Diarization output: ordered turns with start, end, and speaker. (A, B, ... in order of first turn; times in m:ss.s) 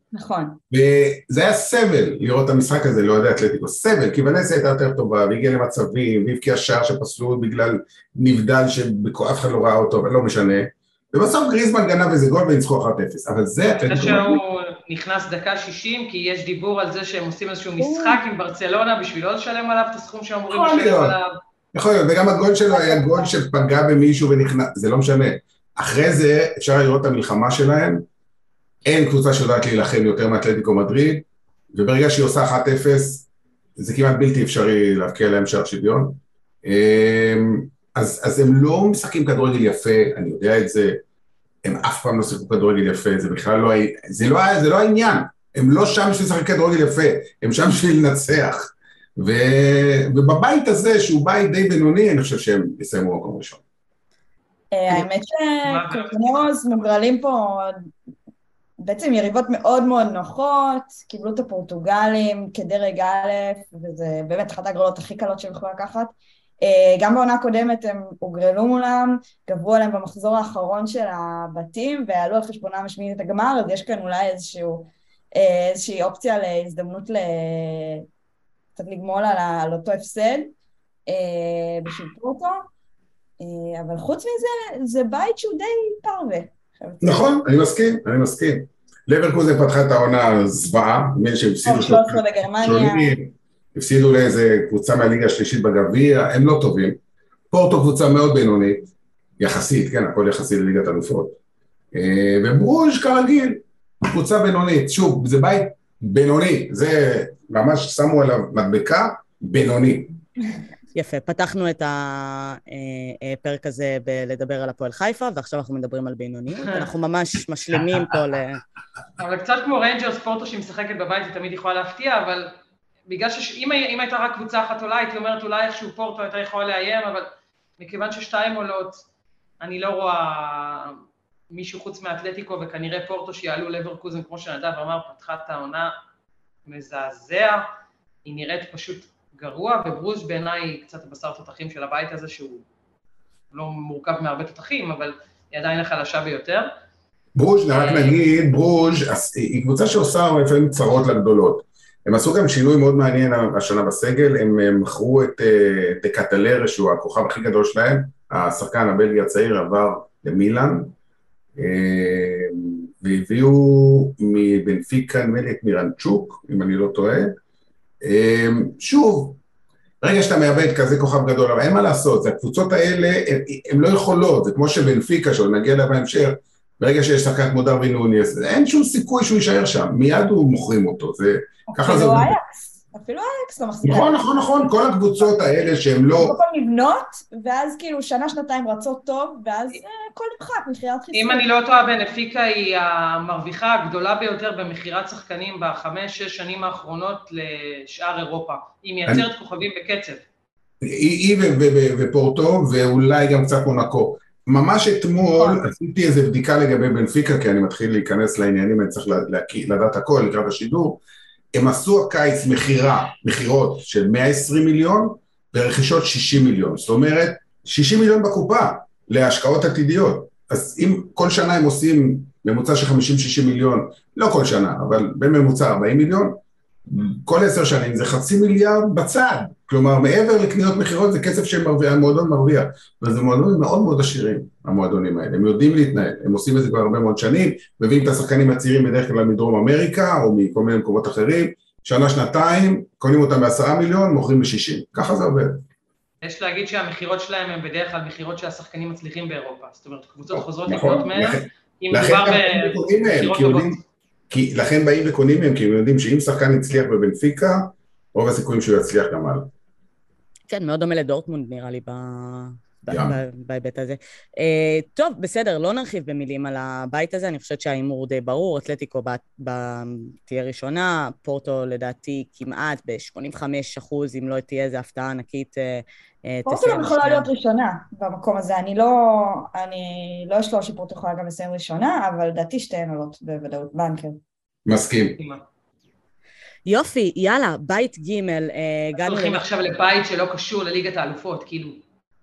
0:00.1-0:00.6 A
0:00.7-0:14.4 B
0:13.6-0:21.3 C
0:17.8-0:18.2 A
0:20.5-0:21.1 B
0:21.7-0:28.0 B
0:22.7-0:23.3 A
0:28.8-0:41.0 B
0:41.6-0:53.6 B
0:54.7-0:57.9 A
0:55.6-0:56.4 C
0:58.8-1:18.0 A
1:18.8-1:20.5 A
1:21.1-1:22.7 A
1:23.4-1:27.3 A
1:27.0-1:37.0 B
1:31.6-1:33.2 A
1:37.5-1:41.4 B
1:41.9-1:50.1 B
1:50.9-1:58.6 D
1:59.2-2:02.5 C
2:03.1-2:09.0 C
2:09.6-2:15.9 C
2:16.6-2:17.6 C
2:18.2-2:22.6 C
2:23.5-2:26.7 C
2:27.4-2:40.9 B
2:27.7-2:28.2 C
2:41.6-2:47.3 B
2:48.0-2:49.4 B
2:50.0-3:02.3 B
3:01.7-3:04.3 A
3:03.8-3:06.4 B
3:05.2-3:11.4 A
3:11.1-3:20.2 C
3:20.8-3:31.0 B
3:25.3-3:25.6 A
3:31.5-4:05.6 B
4:06.2-4:13.8 C
4:10.3-4:13.8 B
4:14.3-4:19.5 B
4:20.5-4:37.3 D
4:22.9-4:23.2 B
4:36.4-4:44.2 A
4:44.6-4:45.2 B
4:46.7-4:49.4 D
4:49.0-4:51.8 C